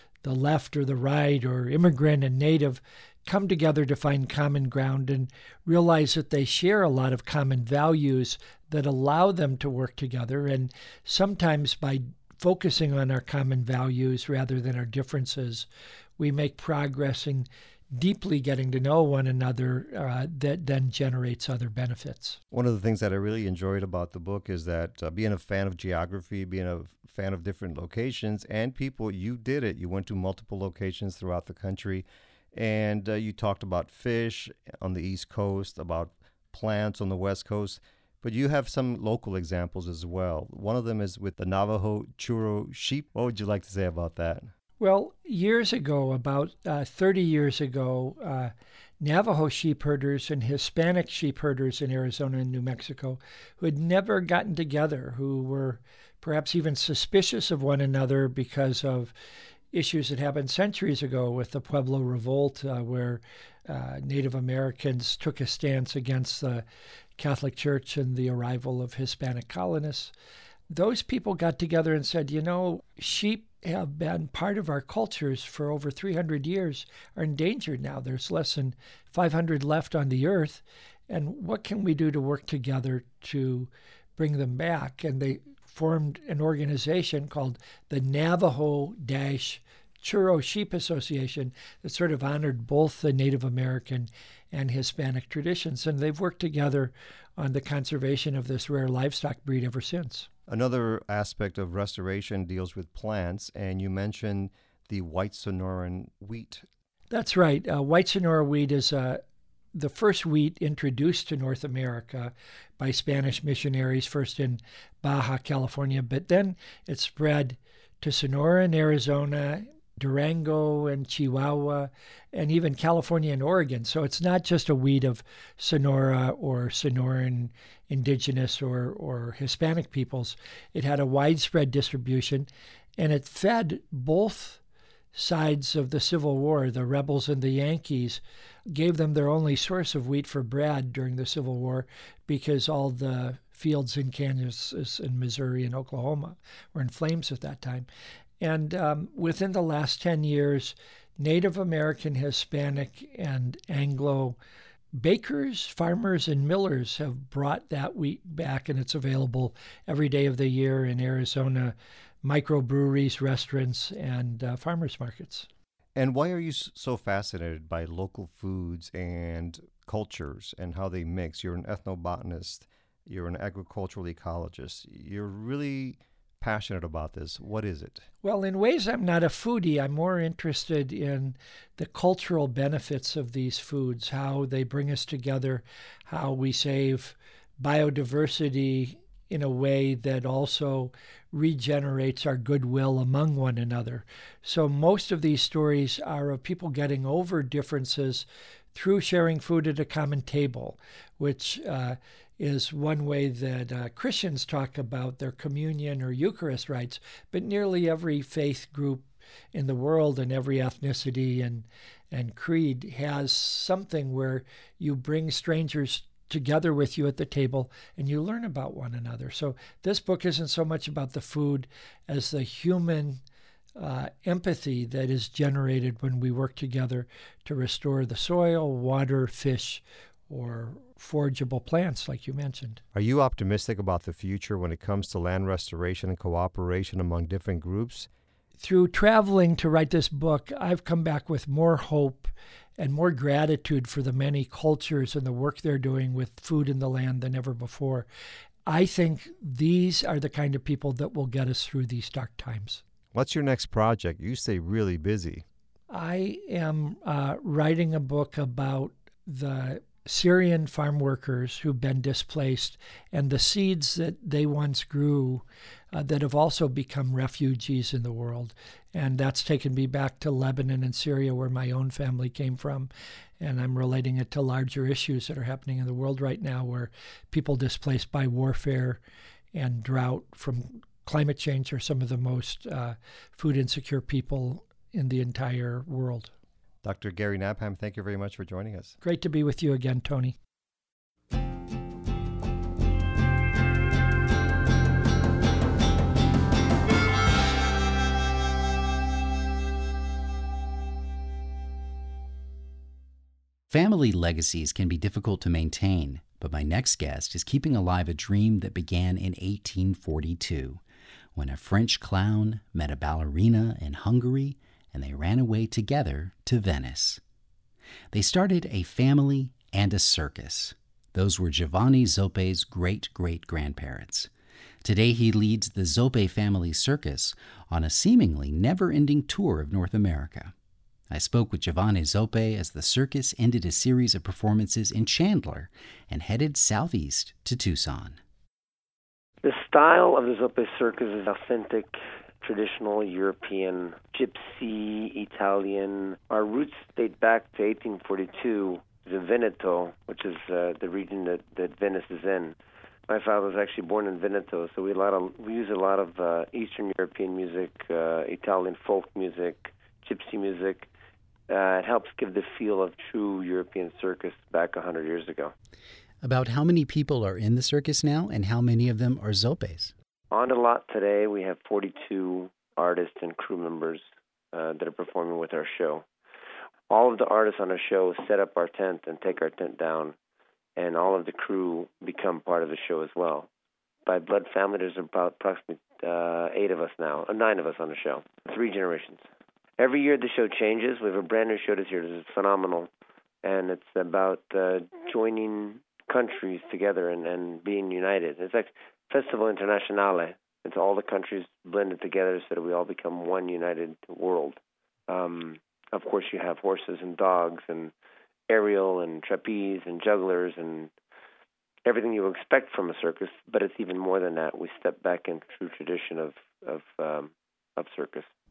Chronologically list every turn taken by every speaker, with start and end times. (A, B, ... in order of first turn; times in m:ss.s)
0:00.2-0:15.7 A
0:16.2-0:22.4 A
0:22.5-0:44.5 B
0:44.8-0:59.1 A
0:59.7-1:06.6 A
1:07.2-1:10.1 A
1:10.7-1:40.3 A
1:40.5-1:46.6 B
1:47.1-1:49.2 A
1:49.7-2:14.6 A
2:15.1-2:27.9 A
2:28.4-2:34.4 A
2:35.0-2:45.5 A
2:45.9-2:58.0 B
2:58.2-3:43.2 A
3:43.8-3:52.8 A
3:52.9-3:58.1 B
3:58.6-4:08.1 A
4:08.6-4:12.8 A
4:13.1-4:15.4 B
4:15.9-4:39.0 A
4:39.5-4:46.3 A
4:46.8-4:49.0 B
4:49.0-4:50.4 A
5:03.7-5:10.8 C
5:11.3-5:17.2 C
5:18.1-5:24.3 C
5:24.8-5:30.5 C
5:31.1-5:38.2 C
5:39.4-5:52.6 D
5:53.1-6:00.9 D
6:01.5-6:05.5 D
6:06.2-6:09.9 C
6:10.3-6:16.1 D
6:16.9-6:20.1 D
6:20.8-6:23.5 D
6:24.0-6:29.2 D
6:29.8-6:32.9 D
6:33.4-6:47.9 D
6:48.5-6:50.9 D
6:51.8-6:58.3 D